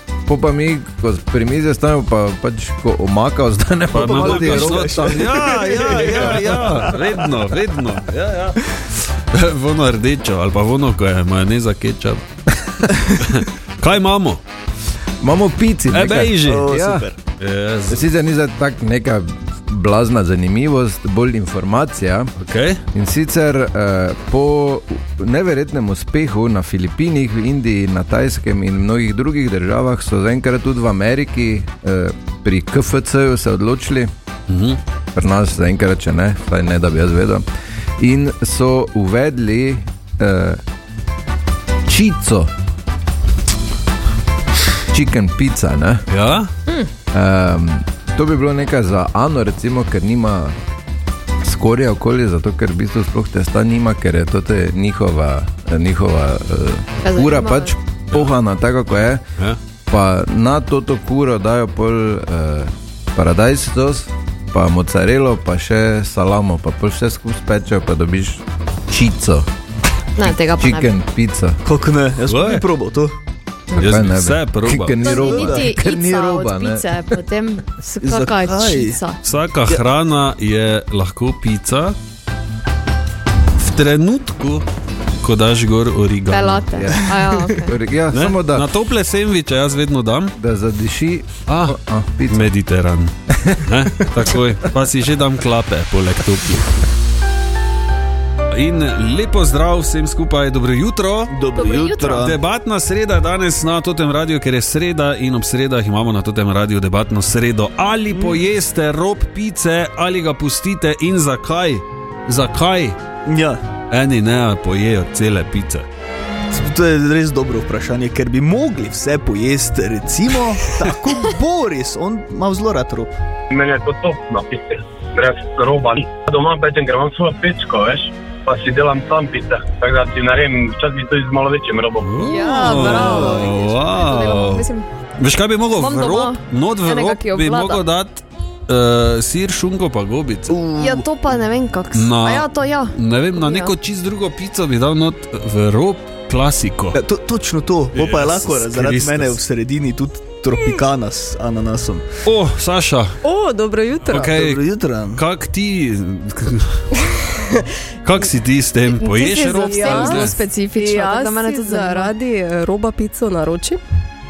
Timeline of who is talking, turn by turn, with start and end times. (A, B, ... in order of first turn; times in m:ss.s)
0:00.3-0:06.8 A
0:03.9-0:14.4 B
0:03.9-0:07.2 C
0:15.2-0:17.1 A
0:15.9-0:16.7 B
0:16.5-0:17.2 C
0:17.4-0:18.1 B
0:17.9-0:22.3 A
0:22.4-0:22.8 B
0:22.9-0:34.1 A
0:34.5-0:34.8 B
0:35.1-0:37.4 A
0:38.0-0:40.6 A
0:41.9-0:42.5 A
0:44.9-0:46.0 A
0:46.1-0:46.5 B
0:47.1-0:50.6 A
0:51.4-0:59.2 A
0:57.0-0:57.7 D
0:59.9-1:09.5 A
1:10.2-1:11.0 D
1:10.2-1:11.6 A
1:11.6-1:13.2 C
1:12.3-1:12.7 B
1:13.7-1:17.0 A
1:13.8-1:15.3 B
1:15.0-1:19.2 D
1:15.3-1:15.7 C
1:18.0-1:19.0 C
1:19.2-1:22.0 B
1:23.6-1:24.7 B
1:25.2-1:26.7 B
1:26.3-1:27.7 D
1:26.7-1:28.7 A
1:28.1-1:30.4 B
1:30.4-1:32.5 A
1:31.5-1:36.8 B
1:38.5-1:41.4 B
1:41.3-1:42.4 C
1:41.6-1:42.3 D
1:42.0-1:53.0 B
1:48.1-1:48.4 C
1:53.2-1:53.6 C
1:53.9-1:55.9 B
1:56.5-2:03.1 C
2:03.5-2:12.1 E
2:12.0-2:14.7 B
2:12.2-2:14.9 D
2:12.6-2:13.4 C
2:15.2-2:20.6 B
2:15.8-2:17.8 D
2:20.5-2:21.1 C
2:20.8-2:23.7 D
2:21.9-2:27.0 B
2:26.9-2:32.1 C
2:27.9-2:29.4 B
2:32.2-2:33.2 B
2:33.2-2:34.4 F
2:34.0-2:37.1 B
2:34.2-2:35.2 C
2:38.0-2:40.4 B
2:38.9-2:42.1 D
2:39.6-2:43.8 F